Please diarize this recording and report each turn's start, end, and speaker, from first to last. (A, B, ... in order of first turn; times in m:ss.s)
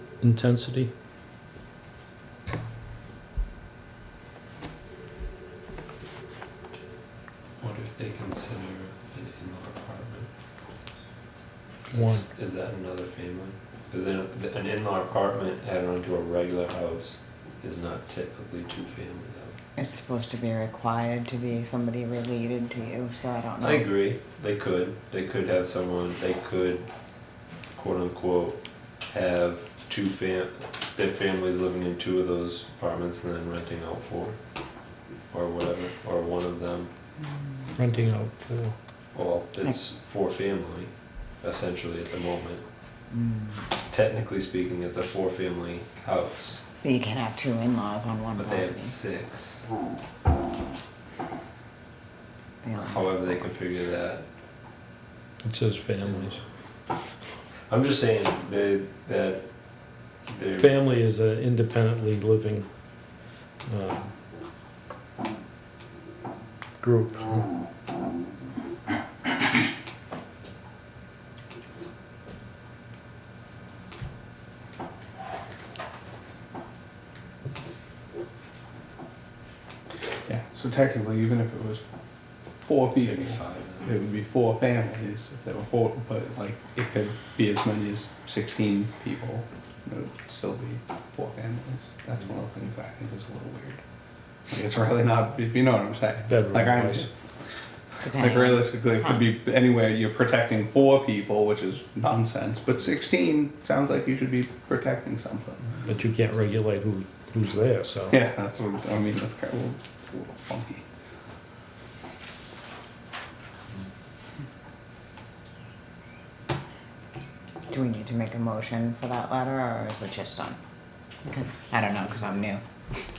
0:00.2-0:00.9 A
0:07.6-0:10.3 B
0:11.9-0:12.3 A
0:11.9-0:19.6 B
0:19.8-0:23.9 C
0:23.6-0:26.9 B
0:27.8-0:34.4 B
0:35.3-0:36.9 B
0:37.8-0:38.8 A
0:39.1-0:42.6 B
0:43.1-0:43.6 C
0:43.9-0:46.6 B
0:46.8-0:49.0 C
0:48.4-0:49.6 B
0:52.6-0:53.2 C
0:52.8-0:54.2 B
0:55.4-0:56.4 A
0:57.7-0:59.5 B
1:00.3-1:00.9 B
1:00.6-1:02.7 A
1:03.7-1:04.1 A
1:06.8-1:07.5 A
1:20.3-1:21.8 D
1:22.6-1:33.8 D
1:23.0-1:23.9 B
1:34.5-1:37.1 D
1:36.3-1:37.1 A
1:38.0-1:39.2 C
1:38.1-1:45.8 D
1:45.8-1:48.2 A
1:48.1-1:50.8 D
1:57.7-2:00.6 C
2:01.3-2:02.6 C